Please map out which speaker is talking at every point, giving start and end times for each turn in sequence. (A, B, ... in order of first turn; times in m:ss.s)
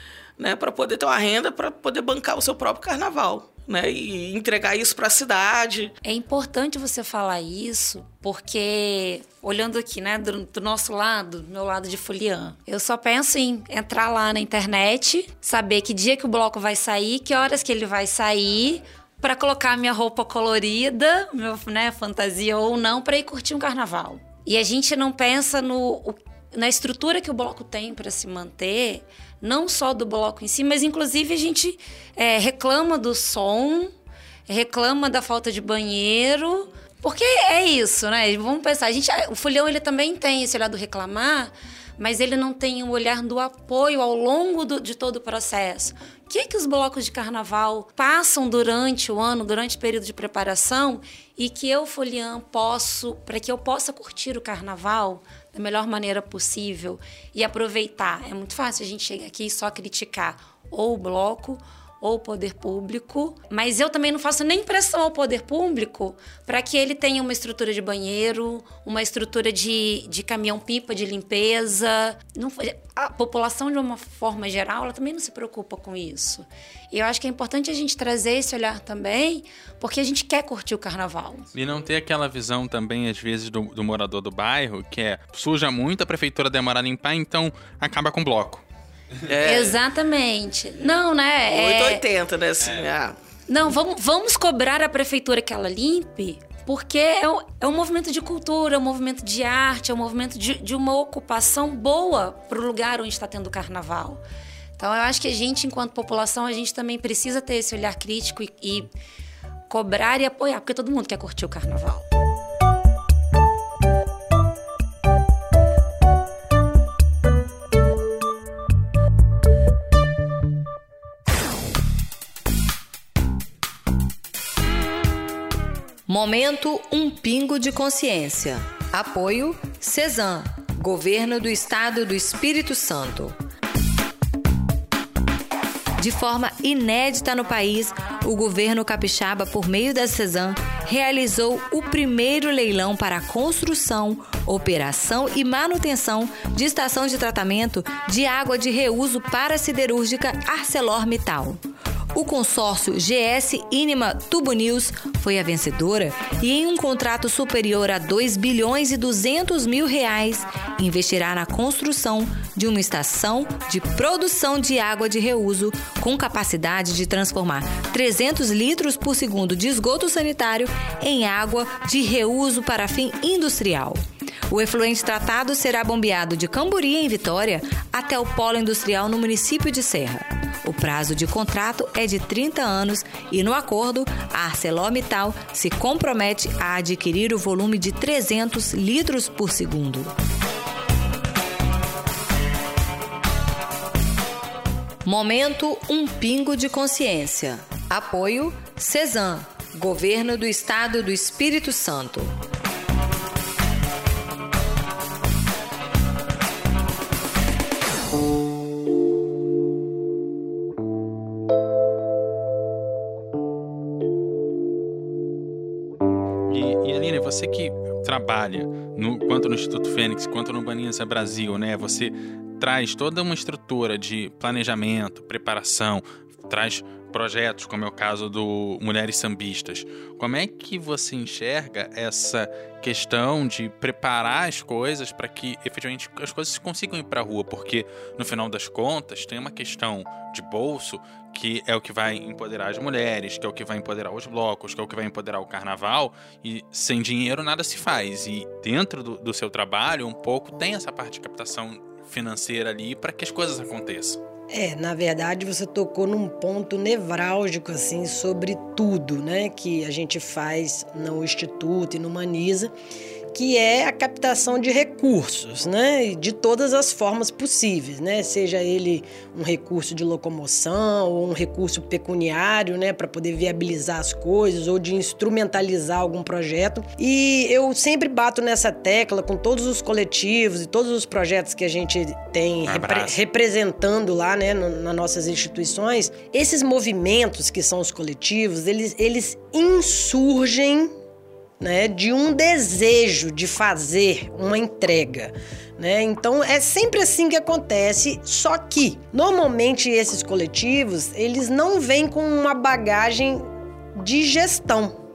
0:00.4-0:05.9 A
0:06.0-0:33.9 B
0:34.5-1:21.5 B
1:21.6-1:28.6 C
1:29.3-1:29.8 A
1:29.4-1:32.0 B
1:31.5-1:33.2 A
1:33.5-1:44.2 B
1:44.8-1:48.9 B
1:49.7-1:52.1 B
2:06.1-2:13.4 D
2:16.0-2:31.6 D
2:32.1-3:10.1 D
3:15.0-3:22.4 D
3:36.5-4:14.2 C
4:14.5-4:22.7 E
4:23.3-4:50.9 E
4:42.7-4:43.2 C
4:51.6-5:03.4 E
5:04.0-5:05.0 E